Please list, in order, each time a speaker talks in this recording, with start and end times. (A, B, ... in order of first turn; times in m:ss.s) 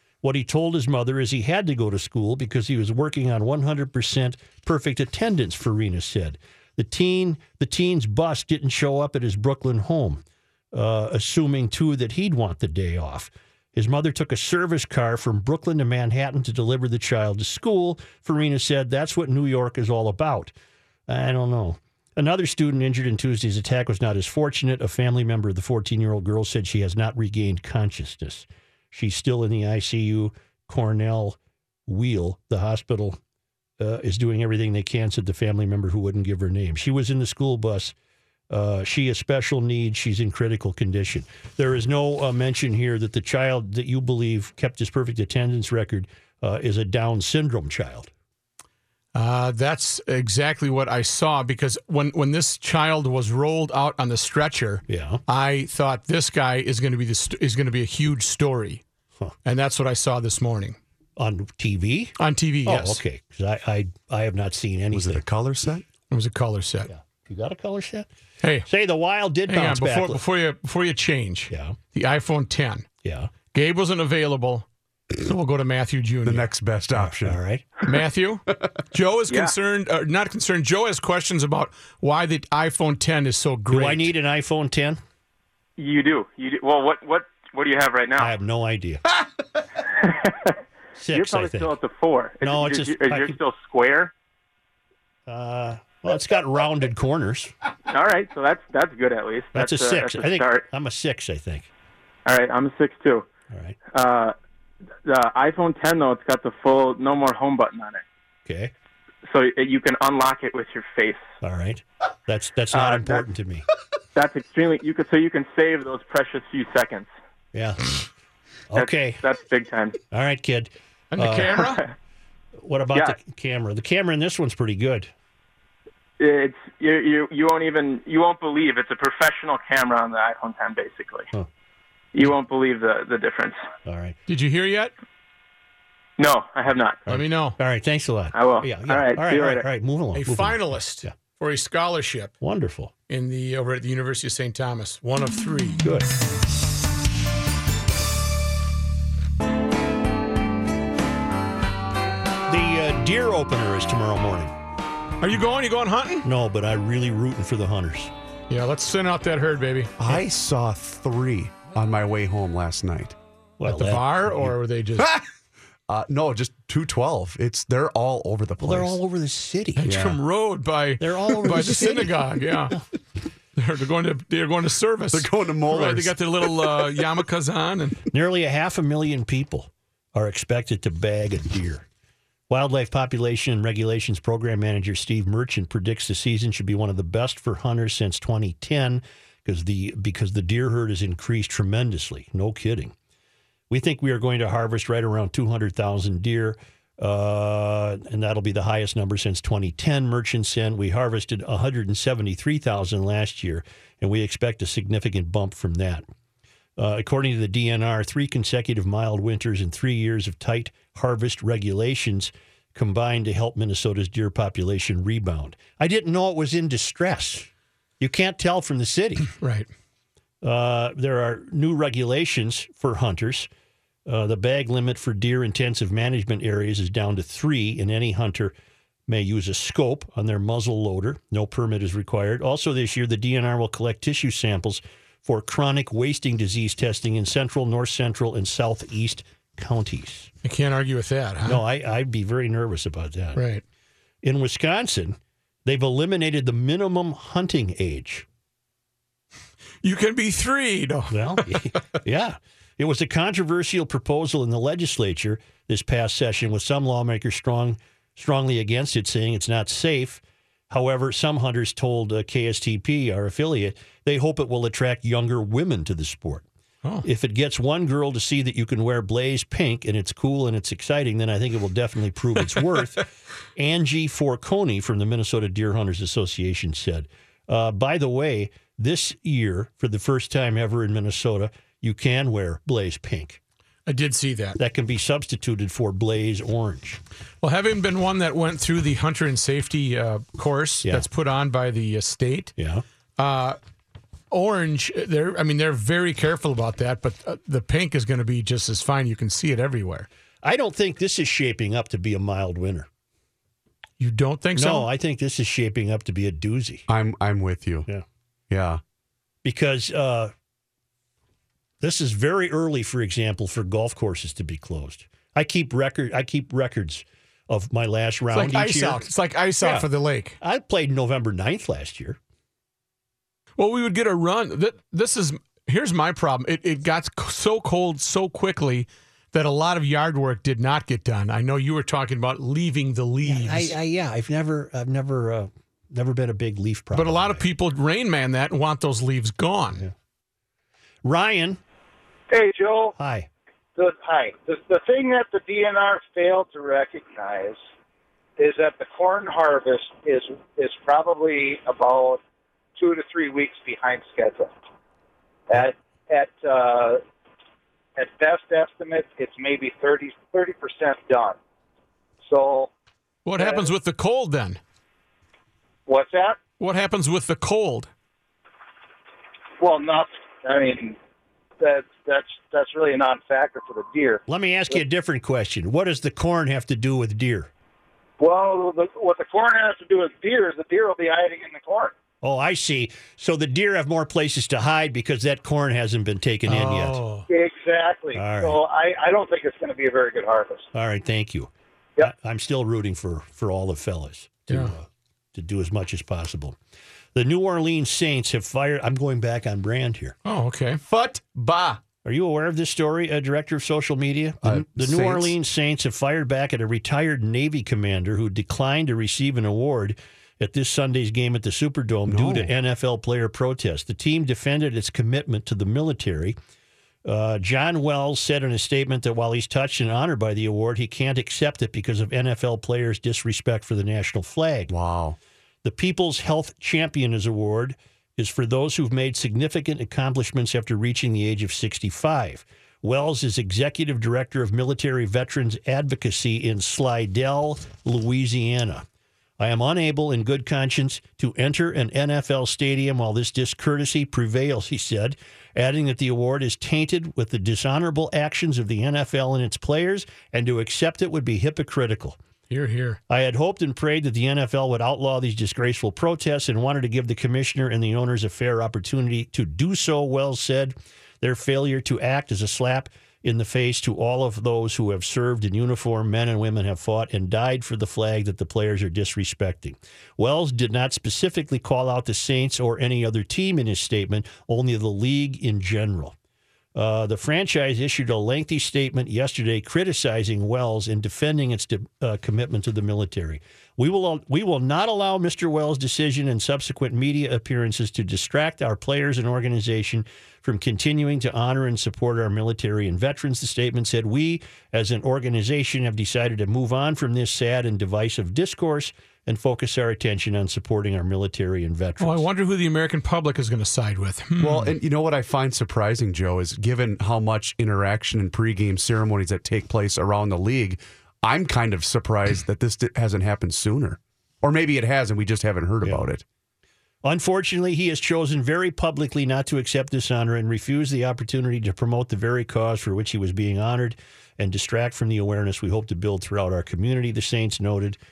0:00.2-0:20.5 A
0:21.1-0:33.2 A
0:33.8-0:37.9 A
0:38.5-0:48.1 A
0:49.1-0:58.8 B
0:54.9-0:55.2 A
0:59.4-1:00.8 B
1:01.2-1:02.1 A
1:02.2-1:03.0 B
1:02.6-1:05.2 A
1:04.9-1:05.8 C
1:06.1-1:06.9 B
1:06.9-1:08.1 A
1:08.4-1:08.7 B
1:08.6-1:10.2 A
1:09.5-1:12.9 B
1:11.5-1:11.8 A
1:13.0-1:13.3 A
1:13.5-1:14.6 B
1:15.2-1:16.5 B
1:16.2-1:17.4 C
1:16.9-1:17.7 A
1:17.8-1:24.1 B
1:19.3-1:19.5 D
1:23.7-1:25.0 A
1:25.8-1:28.3 D
1:28.2-1:29.0 A
1:30.0-1:30.5 D
1:31.0-1:31.8 A
1:31.1-1:34.1 D
1:32.4-1:33.4 A
1:35.3-1:37.5 A
1:37.9-1:40.7 D
1:39.5-1:41.7 A
1:42.2-1:43.3 D
1:43.5-1:43.8 A
1:43.9-1:44.3 D
1:45.0-1:48.0 D
1:48.4-1:48.7 A
1:49.2-1:51.2 D
1:51.4-1:53.6 A
1:52.7-1:53.2 D
1:54.1-1:57.1 D
1:57.5-1:58.0 A
1:58.7-1:59.2 A
1:58.7-2:00.0 D
2:00.1-2:01.6 A
2:01.1-2:01.8 B
2:01.6-2:01.9 D
2:02.6-2:05.1 A
2:06.2-2:11.3 D
2:12.1-2:13.6 D
2:13.8-2:14.2 A
2:14.3-2:14.9 B
2:16.2-2:17.0 D
2:17.1-2:17.6 B
2:17.1-2:21.1 A
2:18.3-2:19.6 D
2:20.2-2:22.3 B
2:22.4-2:22.9 A
2:23.1-2:25.8 B
2:32.5-2:34.5 A
2:35.2-2:36.2 B
2:36.2-2:38.1 A
2:38.5-2:40.2 B
2:40.0-2:43.2 C
2:43.6-2:44.5 A
2:43.6-2:45.1 B
2:45.0-2:45.2 C
2:45.9-2:49.0 C
2:48.6-2:50.1 A
2:49.8-2:52.8 B
2:49.8-2:50.2 C
2:51.0-2:52.1 A
2:51.5-2:51.8 C
2:53.6-2:58.0 B
2:55.1-2:57.1 C
2:58.1-3:01.8 A
3:02.5-3:12.9 A
3:13.7-3:26.0 A
3:26.8-3:37.5 A
3:38.0-3:39.3 A
3:39.4-3:39.7 B
3:40.4-3:43.5 A
3:44.0-3:48.5 A
3:49.1-4:00.3 A
4:00.4-4:01.6 B
4:01.4-4:03.4 A
4:03.3-4:03.6 B
4:04.2-4:08.2 A
4:09.8-4:11.6 B
4:11.1-4:26.4 A
4:27.0-4:43.4 A
4:43.9-4:44.6 B
4:44.6-4:47.0 A
4:47.4-4:52.5 B
4:52.6-4:52.8 A
4:53.2-4:53.6 B
4:54.3-5:00.1 B
5:00.4-5:02.9 A
5:04.0-5:04.9 B
5:04.6-5:06.8 A
5:06.9-5:07.9 C
5:08.5-5:08.8 C
5:09.4-5:10.3 A
5:11.8-5:19.1 A
5:18.3-5:20.4 B
5:19.6-5:19.9 A
5:20.4-5:22.2 A
5:23.6-5:33.7 B
5:33.2-5:37.4 A
5:36.9-5:39.8 B
5:41.0-5:41.6 A
5:42.3-5:42.9 E
5:43.0-5:43.3 A
5:43.8-5:47.6 E
5:48.4-5:52.2 E
5:52.8-5:54.5 E
5:55.5-5:57.0 E
5:58.0-6:01.4 E
6:02.2-6:02.7 E
6:03.2-6:04.6 B
6:03.4-6:03.7 E
6:05.9-6:06.4 E
6:06.6-6:07.9 B
6:09.6-6:11.0 E
6:11.6-6:14.2 E
6:14.3-6:17.5 A
6:18.2-6:21.9 E
6:22.2-6:27.0 A
6:26.5-6:27.3 B
6:27.3-6:30.7 E
6:28.1-6:28.6 A
6:30.7-6:36.6 A
6:34.5-6:34.7 B
6:37.1-6:40.2 A
6:40.2-6:40.8 B
6:40.9-6:41.8 C
6:42.0-6:56.4 A
6:44.4-6:45.4 C
6:52.1-6:52.5 C
6:57.0-7:04.7 A
7:04.7-7:05.2 C
7:05.6-7:18.8 A
7:19.4-7:32.2 A
7:32.5-7:33.0 B
7:33.1-7:56.1 A
7:56.7-8:22.2 A
8:22.0-8:24.8 B
8:24.4-8:36.2 C
8:37.0-8:48.0 A